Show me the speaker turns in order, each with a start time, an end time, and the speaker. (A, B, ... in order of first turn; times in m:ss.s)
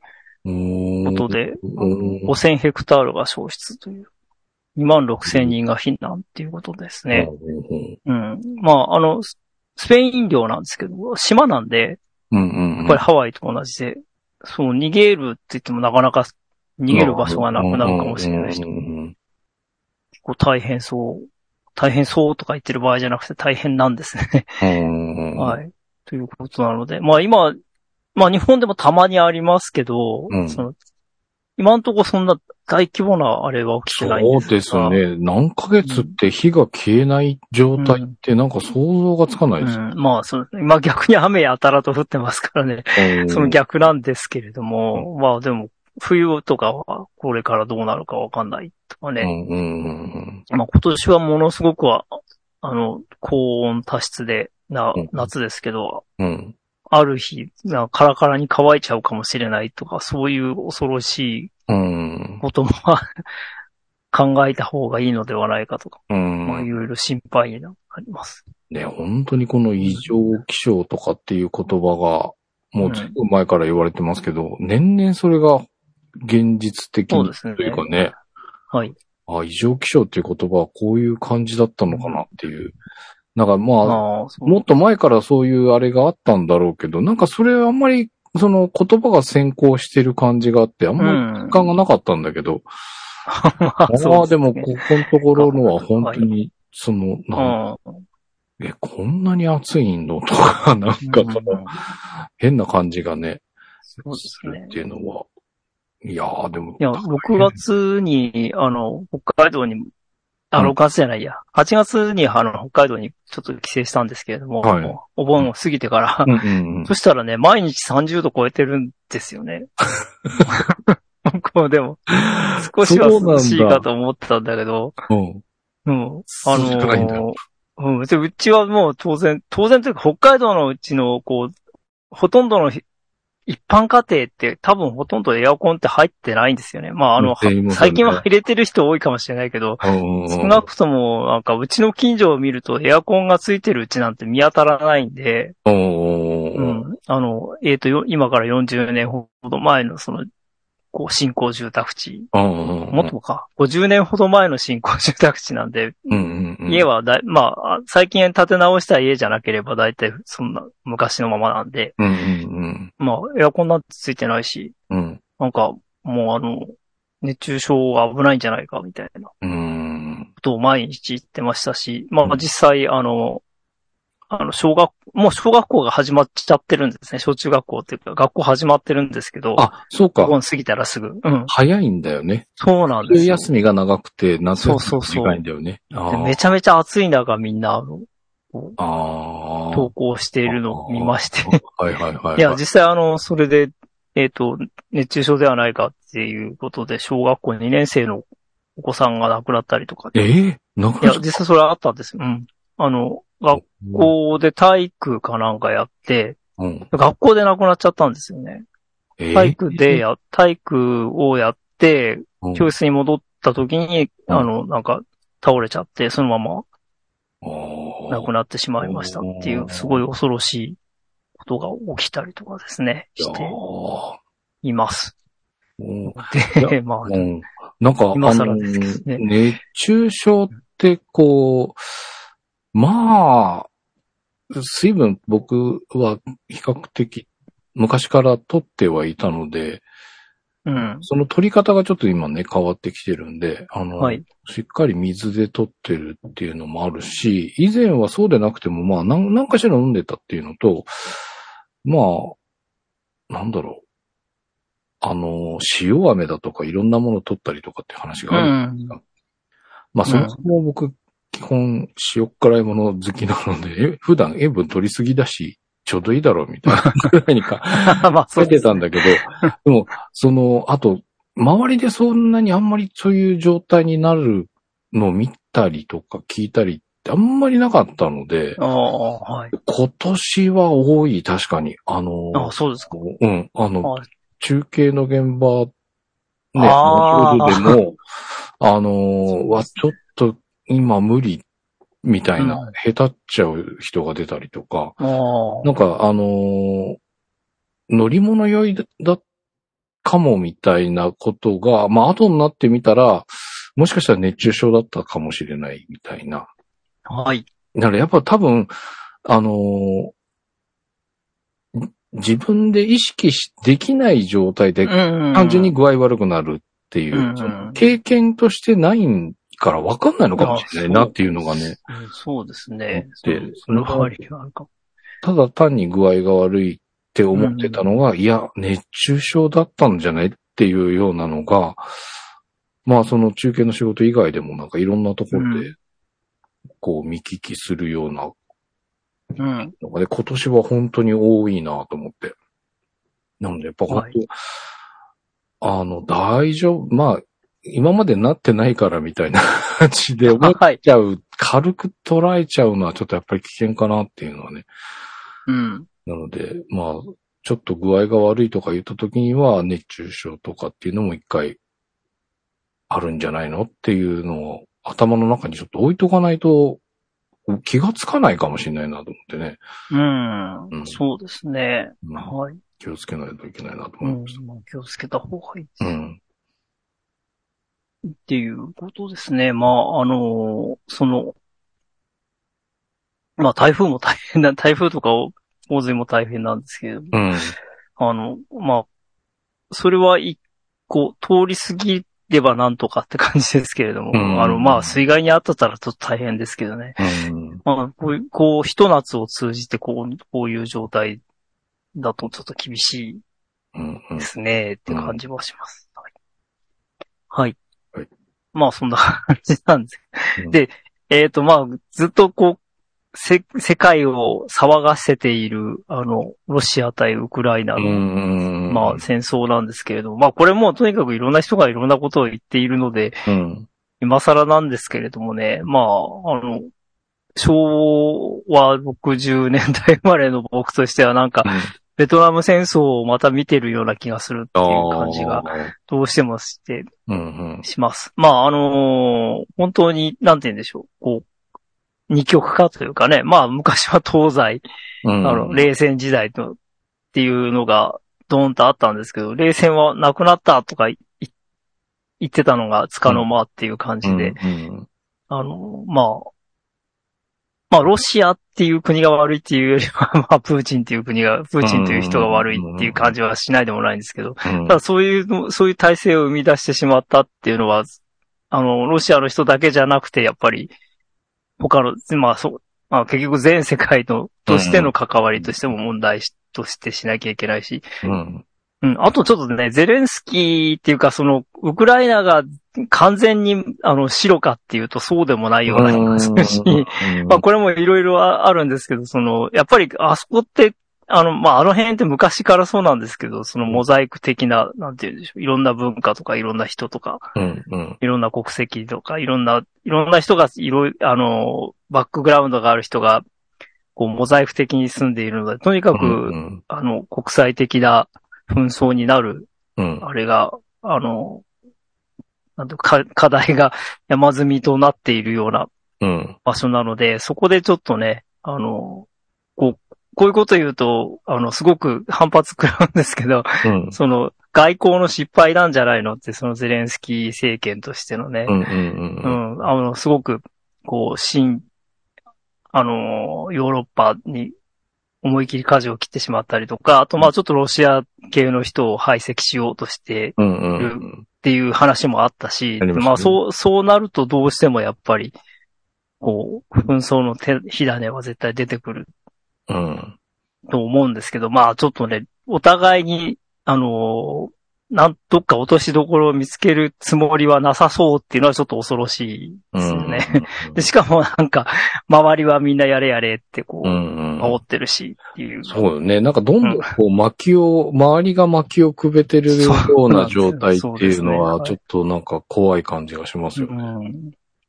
0:00.4-0:02.3 A
0:01.0-0:01.7 B
0:02.2-0:04.1 B
0:04.8-0:07.3 B
0:05.2-0:05.5 A
0:07.1-0:08.0 A
0:08.1-0:12.0 B
0:12.3-0:13.0 A
0:12.8-0:18.6 B
0:16.9-0:19.2 A
0:20.2-0:21.2 B
0:21.8-0:24.6 B
0:24.6-0:25.6 A
0:25.4-0:27.6 B
0:28.2-0:30.7 B
0:30.3-0:30.7 A
0:31.6-0:35.0 B
0:33.9-0:39.8 A
0:35.8-0:36.1 B
0:37.8-0:38.2 B
0:39.6-0:49.3 B
0:43.0-0:43.6 A
0:49.2-0:50.4 A
0:50.5-0:56.0 B
0:55.0-0:55.3 A
0:56.2-0:56.6 A
0:56.9-1:01.5 B
1:01.7-1:02.4 A
1:02.4-1:03.0 B
1:04.1-1:08.4 B
1:06.1-1:06.7 A
1:08.7-1:15.7 A
1:09.8-1:10.1 B
1:12.8-1:13.2 B
1:16.2-1:18.2 A
1:17.1-1:17.8 B
1:19.3-1:22.8 A
1:21.9-1:22.2 B
1:23.4-1:32.7 A
1:23.8-1:24.6 B
1:31.0-1:31.6 B
1:33.3-1:36.2 B
1:33.9-1:37.6 A
1:37.4-1:38.0 B
1:38.6-1:41.6 A
1:41.0-1:41.8 B
1:42.4-1:43.4 A
1:44.0-1:44.8 B
1:44.0-1:45.3 A
1:46.0-1:47.6 A
1:46.8-1:49.9 B
1:50.5-1:59.7 B
1:54.6-1:55.5 A
1:56.3-1:56.9 A
2:00.5-2:05.0 B
2:02.1-2:03.9 A
2:05.1-2:05.4 A
2:05.9-2:11.5 B
2:06.4-2:07.3 A
2:12.1-2:12.8 B
2:13.5-2:25.6 B
2:17.2-2:18.2 A
2:19.8-2:20.7 A
2:25.7-2:26.8 A
2:26.6-2:30.3 B
2:30.9-2:32.3 B
2:32.3-2:33.1 A
2:32.9-2:42.0 B
2:36.1-2:36.9 A
2:42.0-2:42.9 A
2:43.0-2:44.7 B
2:44.9-2:45.2 A
2:45.4-2:49.3 B
2:49.4-2:50.3 A
2:50.4-2:53.4 B
2:54.3-3:01.5 B
2:59.6-3:00.4 A
3:01.5-3:02.5 A
3:02.6-3:03.5 B
3:03.0-3:06.4 A
3:04.6-3:05.4 B
3:06.1-3:08.8 B
3:08.8-3:09.9 A
3:09.7-3:11.6 B
3:10.5-3:12.6 A
3:12.4-3:18.2 B
3:18.8-3:20.2 B
3:20.2-3:21.4 A
3:21.0-3:26.4 B
3:23.6-3:24.1 A
3:26.6-3:26.9 A
3:26.9-3:28.6 B
3:29.2-3:30.0 A
3:29.3-3:36.6 B
3:32.4-3:32.7 A
3:37.4-3:38.3 A
3:38.1-3:40.8 B
3:38.8-3:40.0 A
3:41.4-3:43.6 B
3:43.2-3:44.2 A
3:44.6-3:45.1 B
3:45.8-3:51.8 A
3:46.1-3:47.3 B
3:48.1-3:49.2 B
3:52.7-3:53.7 A
3:54.5-3:59.8 A
4:00.7-4:01.1 B
4:01.0-4:11.2 A
4:04.0-4:04.2 B
4:11.8-4:12.4 A
4:13.3-4:13.8 A
4:15.0-4:19.0 A
4:18.3-4:19.0 B
4:19.9-4:38.6 A
4:20.1-4:20.4 B
4:26.7-4:27.1 B
4:27.8-4:29.5 B
4:38.6-4:39.5 B
4:39.5-4:45.7 A
4:42.3-4:43.0 B
4:46.5-4:48.0 A
4:46.6-4:47.8 B
4:48.6-4:51.4 A
4:52.0-4:55.0 A
4:52.4-4:52.7 B
4:55.0-4:55.7 B
4:55.6-4:57.0 A
4:57.9-4:59.2 A
5:00.0-5:06.5 A
5:07.1-5:07.5 B
5:07.8-5:08.7 A
5:09.2-5:10.1 A
5:11.7-5:21.8 A
5:14.8-5:15.7 B
5:17.1-5:17.8 B
5:20.4-5:21.2 B
5:21.8-5:24.7 B
5:22.9-5:24.1 A
5:25.2-5:31.8 A
5:27.4-5:27.8 B
5:32.8-5:35.8 A
5:35.3-5:35.7 B
5:36.8-5:38.3 A
5:39.4-5:39.7 B
5:39.8-5:42.4 A
5:43.4-5:44.3 A
5:43.9-5:44.1 B
5:45.6-5:54.7 A
5:50.3-5:50.8 B
5:55.5-5:55.9 B
5:56.1-6:01.6 A
6:02.9-6:06.8 A
6:07.5-6:09.6 A
6:09.9-6:12.6 B
6:10.7-6:11.0 A
6:12.0-6:14.4 A
6:14.0-6:16.0 B
6:15.8-6:16.2 A
6:18.0-6:21.4 B
6:23.4-6:27.2 B
6:27.1-6:27.6 A
6:28.0-6:28.9 B
6:29.7-6:37.0 B
6:34.1-6:35.0 A
6:37.0-6:37.6 A
6:37.6-6:41.2 B
6:42.0-6:43.2 B
6:43.8-6:44.3 A
6:44.2-6:46.0 B
6:44.9-6:45.2 A
6:47.3-6:47.6 B
6:48.5-6:52.6 B
6:53.1-6:58.0 B
6:57.8-6:59.0 A
6:58.7-7:03.2 B
7:03.3-7:03.7 A
7:04.0-7:06.7 B
7:07.4-7:16.9 B
7:11.4-7:11.7 A
7:14.6-7:15.7 A
7:17.1-7:17.7 A
7:17.6-7:21.3 B
7:22.1-7:24.6 B
7:25.0-7:25.7 A
7:25.2-7:26.6 B
7:27.1-7:31.3 B
7:32.2-7:34.4 B
7:34.0-7:34.9 A
7:35.3-7:36.3 B
7:37.7-7:47.9 B
7:41.6-7:43.2 A
7:44.4-7:44.8 A
7:48.5-7:50.7 B
7:51.6-7:57.9 B
7:54.5-7:55.5 A
7:58.0-7:58.4 A
7:58.8-8:17.3 B
8:05.7-8:07.4 A
8:17.4-8:18.0 A
8:18.0-8:23.2 B
8:24.0-8:31.4 B
8:26.0-8:26.6 A
8:29.8-8:30.0 A
8:32.6-8:35.7 B
8:36.0-8:36.4 A
8:36.5-8:48.6 B
8:43.6-8:44.0 A
8:48.5-8:49.4 A
8:49.2-8:51.6 B
8:52.7-8:54.5 B
8:55.2-9:05.4 B
9:00.4-9:01.2 A
9:02.8-9:03.4 A
9:06.2-9:09.1 B
9:09.7-9:10.2 A
9:10.7-9:25.8 B
9:19.7-9:20.8 A
9:23.8-9:24.6 A
9:25.6-9:33.8 A
9:26.6-9:26.9 B
9:29.5-9:31.8 B
9:33.6-9:34.3 B